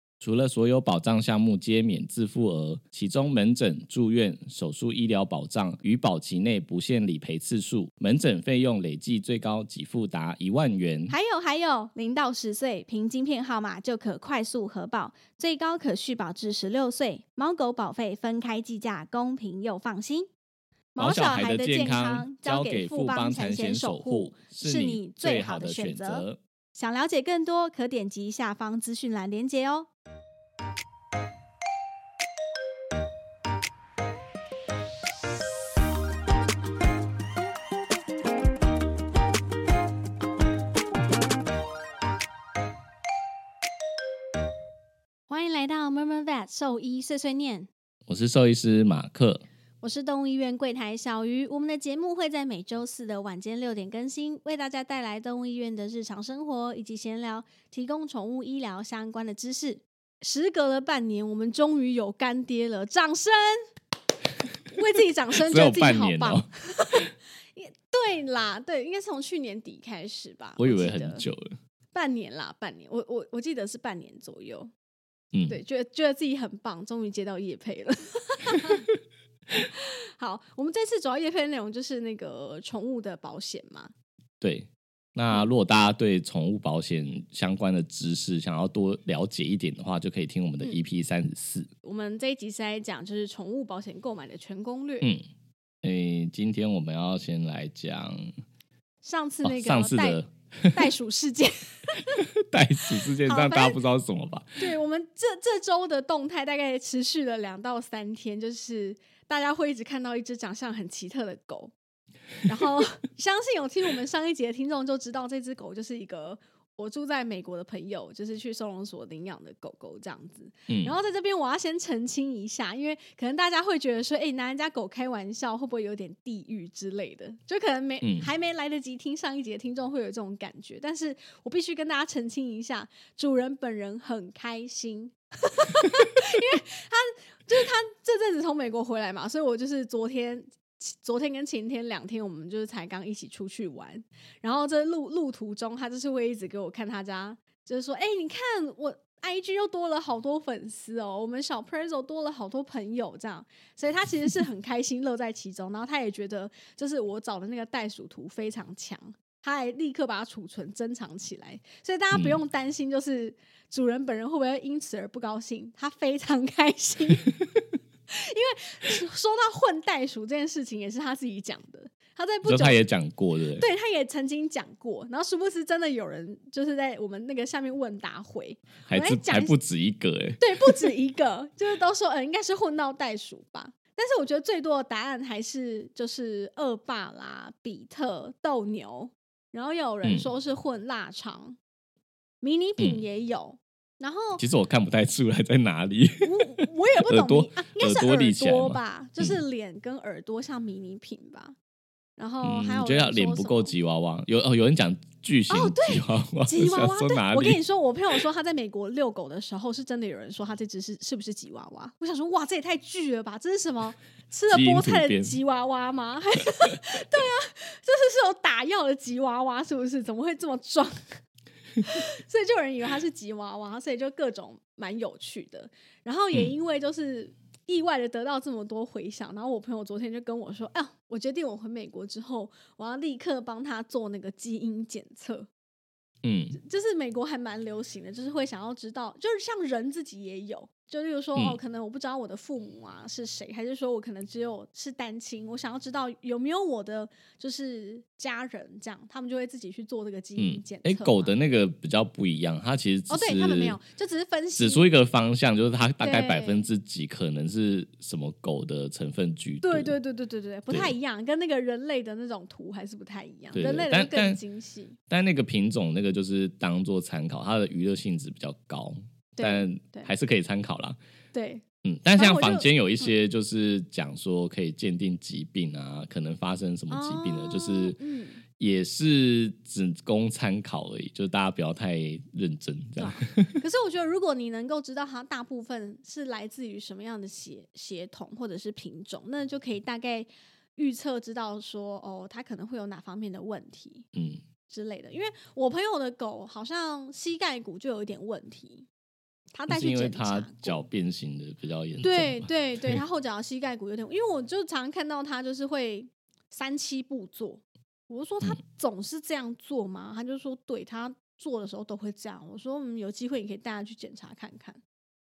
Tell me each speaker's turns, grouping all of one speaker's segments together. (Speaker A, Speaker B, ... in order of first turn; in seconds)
Speaker A: 0.2-11.1, 21.0-26.4, 48.1-49.4, 65.4-66.5, 70.6-71.5, 75.3-75.6, 84.4-91.7, 95.8-98.3, 99.4-100.8, 102.1-104.6, 120.7-120.9, 128.0-128.3, 162.1-162.4, 172.4-173.6, 178.9-180.9, 190.0-190.3, 194.4-199.4, 202.4-207.6, 214.5-215.3, 236.2-236.6, 250.4-253.8, 254.6-259.9, 263.5-264.4, 265.1-271.0, 271.8-278.0, 278.6-283.6, 294.1-294.4, 299.7-303.0
Speaker B: 11.1-20.3, 20.9-29.9, 45.3-47.7, 49.8-63.7, 64.7-71.2, 71.9-74.7, 75.5-78.9, 79.6-83.9, 91.8-95.1, 99.0-102.2, 103.2-103.8, 104.6-111.7, 112.4-167.3, 168.1-172.8, 173.6-179.5, 180.4-191.6, 192.4-194.4, 196.2-201.6, 202.2-203.7, 205.5-221.2, 221.8-235.5, 236.6-251.3, 253.1-254.9, 256.0-256.6, 259.6-265.0, 269.4-270.1, 271.3-271.6, 272.1-273.1, 276.9-278.4, 283.0-294.1, 294.7-298.9, 299.5-300.8, 302.0-314.8